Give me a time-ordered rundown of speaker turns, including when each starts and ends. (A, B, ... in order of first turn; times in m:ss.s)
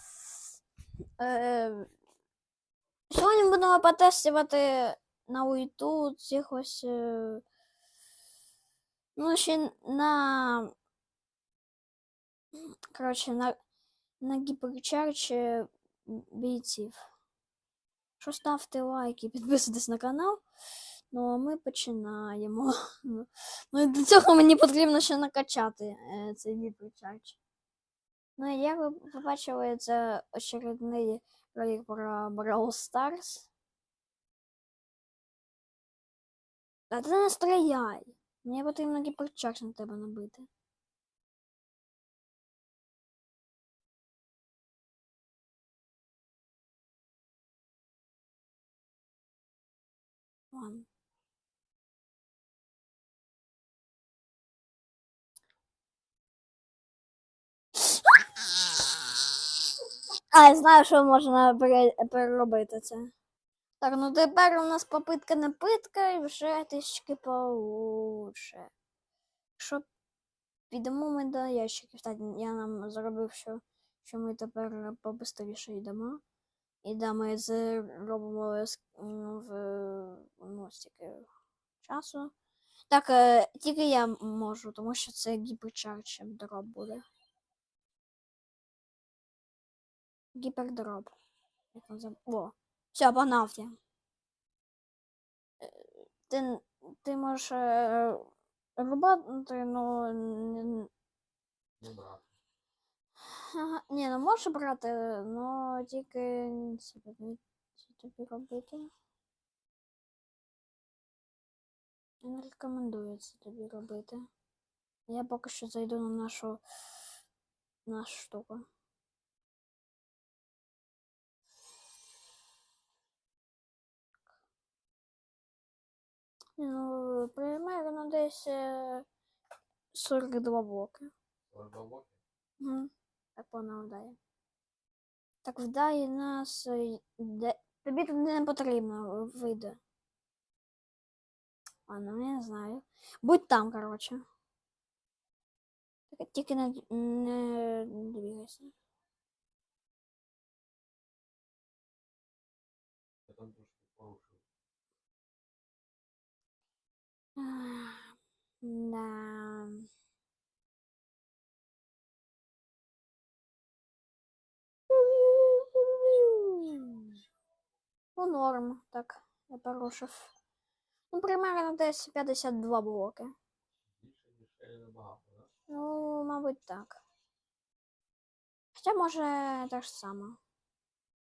0:01.2-0:01.9 A
0:03.1-0:07.4 A
0:09.2-0:10.7 A
0:12.9-0:13.6 A
0:14.2-0:17.0 A
0:18.2-0:20.4 A
0:21.1-0:27.4 A
0:28.4-0:33.5 A
0:36.9-0:40.5 A
0:50.5-0:50.9 A
1:00.3-1:03.1 A
1:03.8-1:08.7 A
1:09.6-1:09.9 A
1:10.7-1:16.2 A
1:16.8-1:21.3 A
1:21.8-1:22.3 A
1:22.9-1:27.0 A
1:30.3-1:31.1 A
1:31.7-1:33.8 A
1:35.6-1:40.9 A
1:41.8-1:42.3 B
1:43.3-1:48.9 A
1:52.2-1:54.2 A
1:55.1-1:56.6 A
1:57.9-1:58.6 A
2:06.6-2:09.1 A
2:09.9-2:11.1 A
2:11.5-2:12.2 B
2:12.6-2:14.2 A
2:15.4-2:19.8 A
2:21.9-2:24.2 A
2:26.1-2:28.7 A
2:33.3-2:34.4 B
2:37.4-2:39.8 A
2:44.9-2:47.1 A
2:48.2-2:50.3 A
2:51.1-2:53.3 A
2:53.9-2:55.5 B
2:55.7-2:57.0 A
2:58.8-3:00.4 A